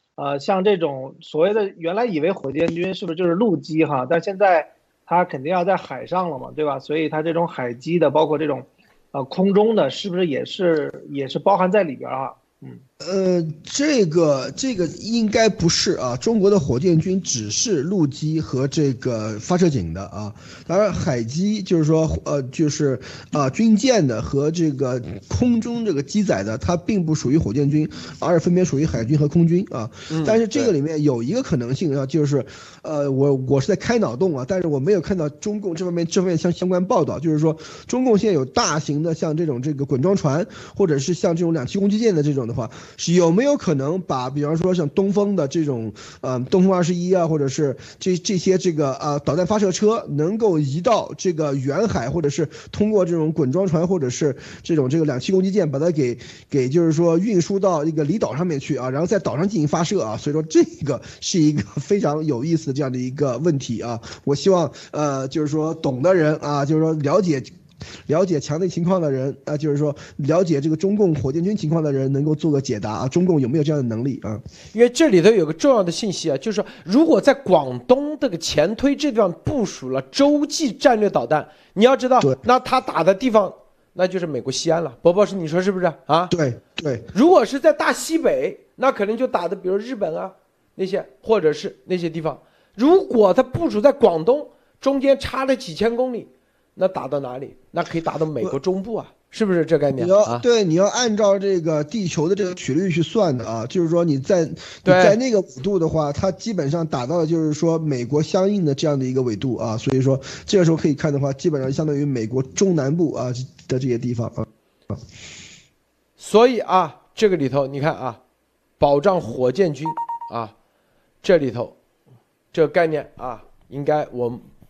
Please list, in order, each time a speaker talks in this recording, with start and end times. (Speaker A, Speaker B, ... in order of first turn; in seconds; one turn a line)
Speaker A: 0.2-12.8
Speaker B: 13.0-67.5
Speaker C: 30.1-30.7
Speaker B: 68.1-74.4
Speaker C: 74.7-86.3
Speaker B: 86.3-87.1
Speaker C: 87.1-100.5
Speaker B: 100.0-115.0
Speaker C: 104.8-105.2
Speaker C: 116.2-118.2
Speaker C: 118.8-120.5
Speaker C: 121.2-121.8
Speaker C: 122.5-124.5